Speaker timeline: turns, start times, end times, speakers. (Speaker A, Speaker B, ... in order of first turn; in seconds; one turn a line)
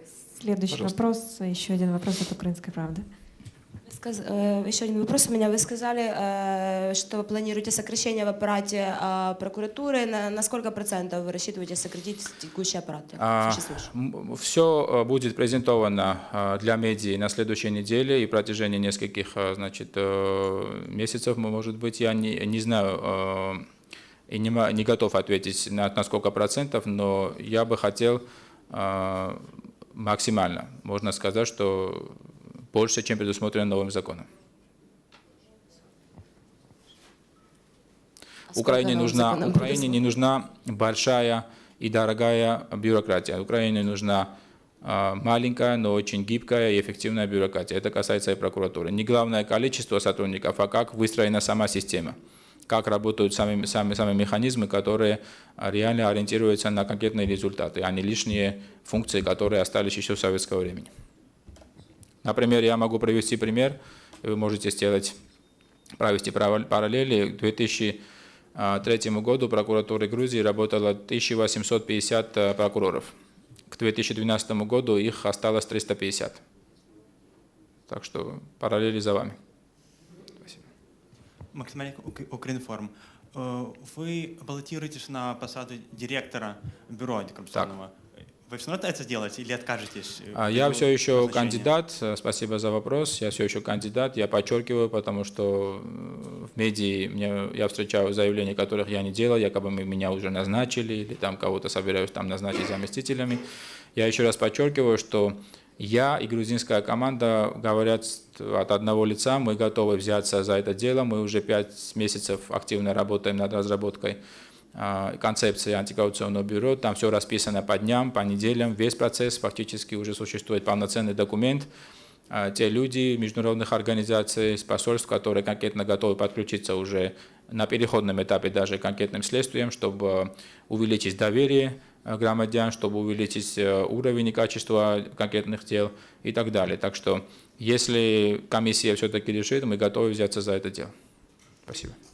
Speaker A: 0.3-3.0
Speaker B: 3.9-13.9
Speaker C: 13.2-23.6
Speaker C: 24.3-32.1
Speaker C: 32.7-34.3
Speaker B: 38.5-40.0
Speaker C: 38.5-44.3
Speaker C: 44.8-52.2
Speaker C: 52.7-60.9
Speaker C: 62.2-65.2
Speaker C: 66.0-68.0
Speaker C: 68.5-73.1
Speaker C: 73.7-76.4
Speaker C: 77.9-79.4
Speaker D: 81.5-91.7
Speaker C: 90.3-103.4
Speaker C: 104.0-114.2
Speaker C: 114.7-121.7
Speaker C: 122.3-140.9
Speaker C: 141.7-141.9